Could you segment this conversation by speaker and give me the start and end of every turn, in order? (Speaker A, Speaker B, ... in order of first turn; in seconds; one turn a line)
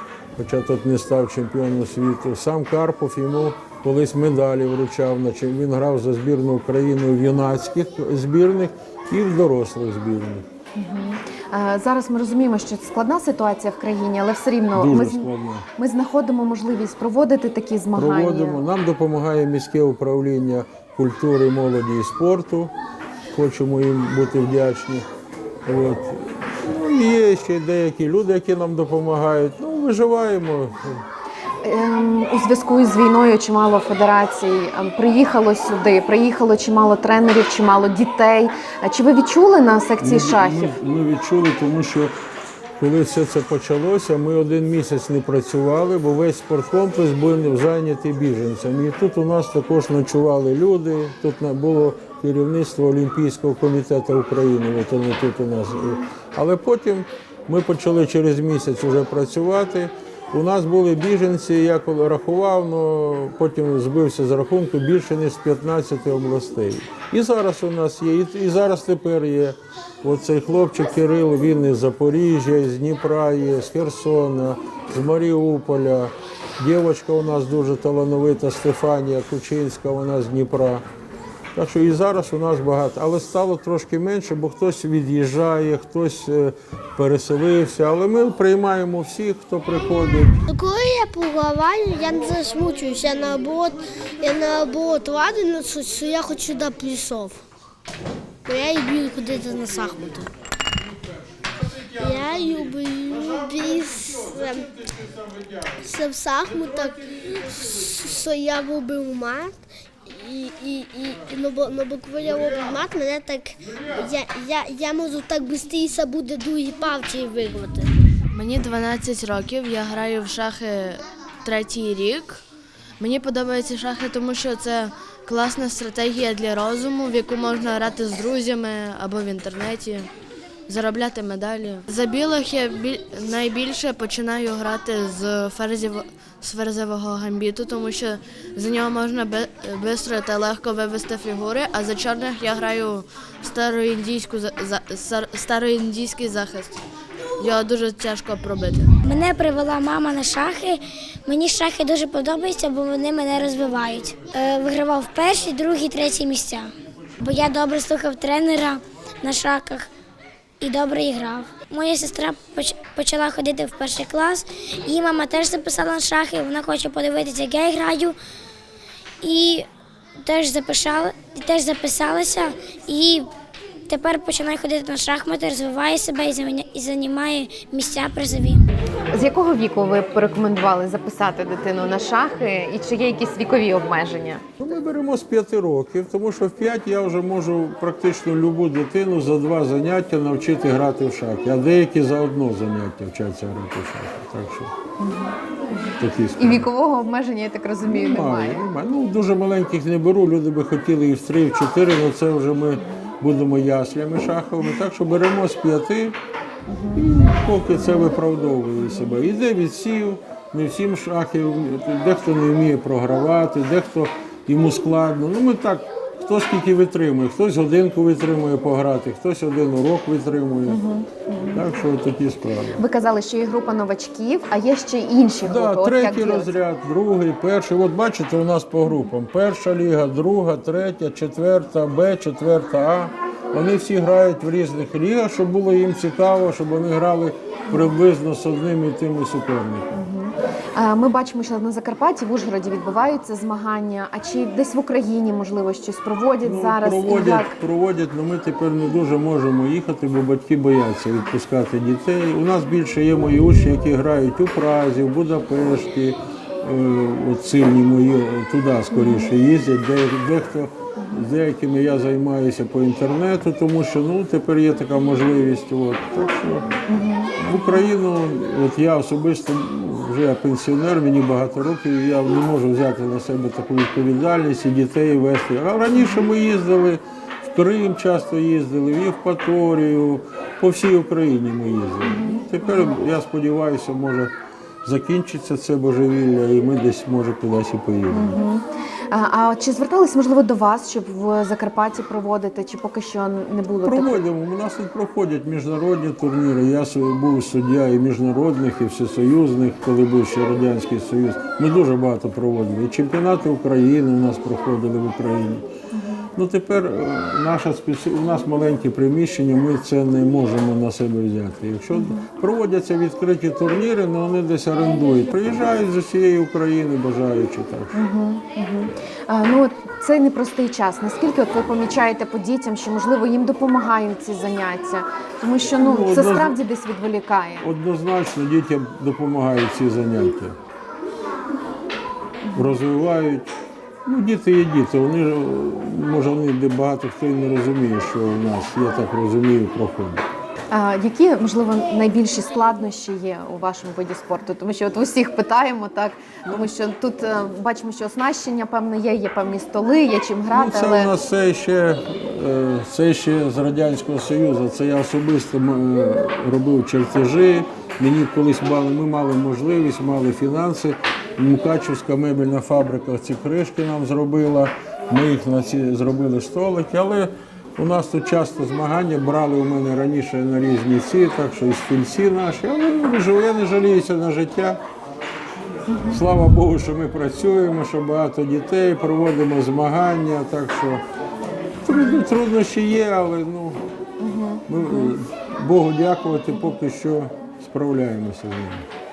Speaker A: 0.4-10.5
Speaker B: 10.8-18.6
Speaker A: 14.7-15.7
Speaker A: 18.0-22.7
Speaker A: 23.3-25.1
Speaker A: 25.7-31.0
Speaker B: 31.6-40.7
Speaker A: 40.0-42.1
Speaker A: 42.8-80.8
Speaker A: 81.5-90.4
Speaker C: 90.5-97.4
Speaker C: 98.5-100.3
Speaker C: 101.8-104.8
Speaker C: 105.6-117.9
Speaker D: 118.3-122.4
Speaker D: 123.0-130.1
Speaker D: 130.7-146.8
Speaker D: 147.4-148.9
Speaker E: 149.0-156.7
Speaker E: 157.2-159.9
Speaker E: 160.6-168.2
Speaker E: 169.2-169.7
Speaker E: 170.2-173.3
Speaker E: 173.9-178.6
Speaker B: 179.1-184.5
Speaker A: 184.6-194.7
Speaker B: 195.0-195.4
Speaker A: 196.0-196.7
Speaker B: 196.4-198.7
Speaker A: 197.8-206.2
Speaker B: 202.8-203.1
Speaker B: 206.7-207.1
Speaker A: 206.9-220.8
Speaker B: 220.7-221.7
Speaker A: 221.5-222.8
Speaker B: 222.8-226.5
Speaker A: 225.4-239.9
Speaker B: 239.9-247.5
Speaker A: 246.4-266.8
Speaker B: 258.9-259.3
Speaker B: 266.9-267.4
Speaker A: 267.4-284.3
Speaker B: 282.0-283.0
Speaker A: 284.8-288.4
Speaker B: 288.1-294.2
Speaker A: 293.9-305.6
Speaker A: 306.4-317.9
Speaker B: 311.9-312.2
Speaker B: 317.9-327.7
Speaker A: 325.8-326.6
Speaker A: 327.6-330.6
Speaker B: 332.5-332.8
Speaker A: 332.5-333.5
Speaker A: 334.1-340.2
Speaker B: 340.7-351.1
Speaker A: 350.5-374.8
Speaker B: 375.9-376.2
Speaker A: 376.1-381.0
Speaker A: 381.9-383.8
Speaker B: 384.2-385.1
Speaker A: 384.7-388.9